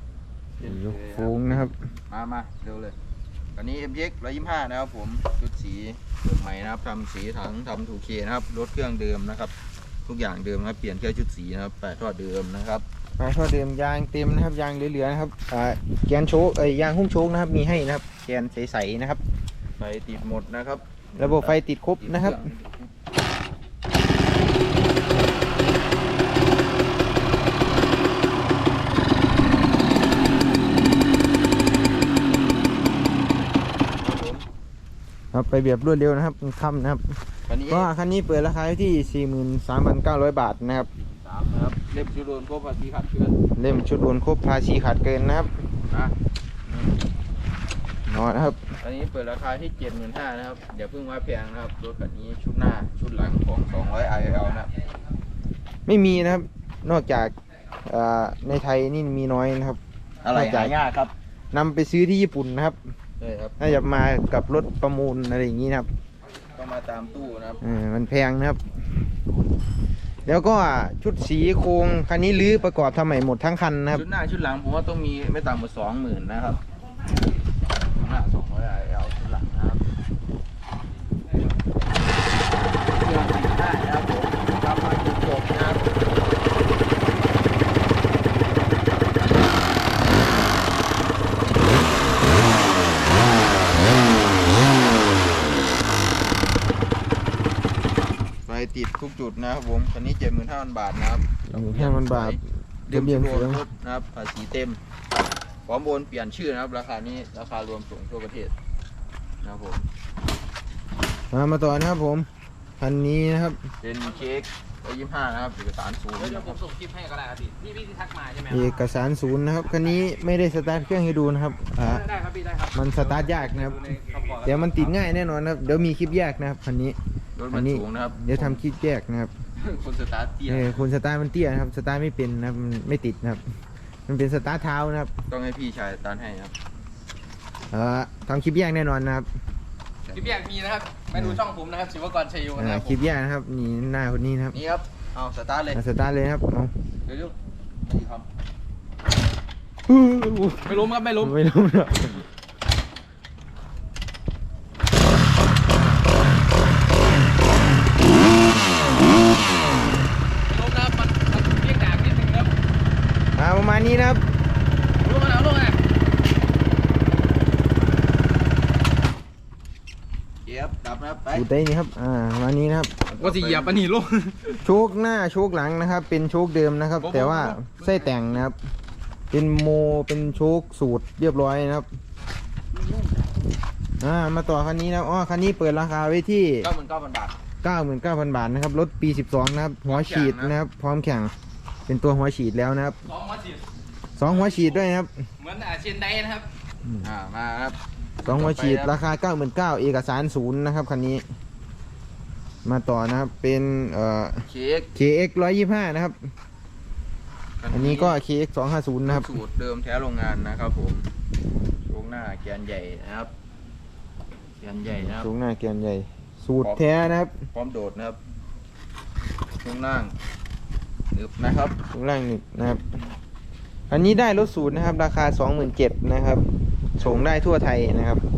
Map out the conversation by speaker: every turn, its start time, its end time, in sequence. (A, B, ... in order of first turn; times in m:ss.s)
0:00.6-0:02.9 A
0:00.6-0:01.7 B
0:03.5-0:09.5 A
0:10.0-0:12.8 A
0:13.2-0:19.2 B
0:19.8-0:22.9 A
0:21.2-0:22.4 B
0:34.0-0:34.4 A
0:35.3-0:37.1 B
0:37.5-0:37.9 A
0:37.7-0:40.9 B
0:41.0-0:43.4 A
0:43.6-0:45.5 B
0:48.1-0:48.6 B
0:48.8-0:54.7 A
0:55.9-0:57.3 B
0:57.8-0:59.8 B
1:00.2-1:01.1 A
1:00.3-1:00.8 B
1:01.5-1:02.8 B
1:03.2-1:03.6 A
1:03.6-1:05.9 B
1:06.5-1:07.6 A
1:07.6-1:08.6 B
1:10.2-1:14.0 B
1:13.9-1:16.6 A
1:17.8-1:19.8 A
1:22.9-1:25.9 A
1:38.4-1:44.8 A
1:41.5-1:43.6 B
1:45.6-1:48.5 A
1:49.4-1:49.8 A
1:51.3-1:52.3 B
1:52.8-1:53.6 B
1:53.8-1:56.6 A
1:56.2-1:58.7 C
1:58.5-2:02.1 B
2:01.8-2:04.9 C
2:02.7-2:07.0 B
2:07.4-2:08.6 A
2:07.5-2:09.3 B
2:09.6-2:10.8 A
2:10.5-2:13.5 B
2:14.1-2:15.1 B
2:15.3-2:16.5 A
2:17.7-2:19.3 B
2:20.1-2:20.4 A
2:20.1-2:23.0 C
2:21.1-2:21.4 B
2:22.5-2:24.6 B
2:24.5-2:25.8 A
2:25.7-2:26.7 B
2:27.0-2:28.3 A
2:29.9-2:32.2 B
2:30.6-2:31.4 C
2:40.5-2:42.5 C
2:43.4-2:44.2 B
2:45.0-2:45.8 C
2:50.4-2:51.5 A
2:51.3-2:52.9 B
2:53.0-2:53.8 A
2:53.2-2:54.6 C
2:54.6-2:58.6 B
2:57.0-2:58.1 A
2:59.3-3:01.9 B
3:04.0-3:06.7 B
3:06.6-3:07.4 A
3:07.6-3:11.3 B
3:09.8-3:10.6 A
3:11.9-3:13.0 B
3:13.1-3:13.6 C
3:14.2-3:15.1 B
3:14.3-3:14.8 C
3:15.4-3:16.5 C
3:17.0-3:19.0 A
3:18.2-3:21.2 B
3:22.6-3:26.3 B
3:24.4-3:24.9 A
3:27.6-3:28.2 A
3:27.7-3:29.3 B
3:29.0-3:31.1 A
3:31.8-3:33.3 A
3:34.6-3:35.3 A
3:34.9-3:37.4 B
3:37.5-3:38.2 A
3:39.6-3:40.1 A
3:41.1-3:41.8 A
3:41.9-3:43.0 B
3:43.9-3:48.2 B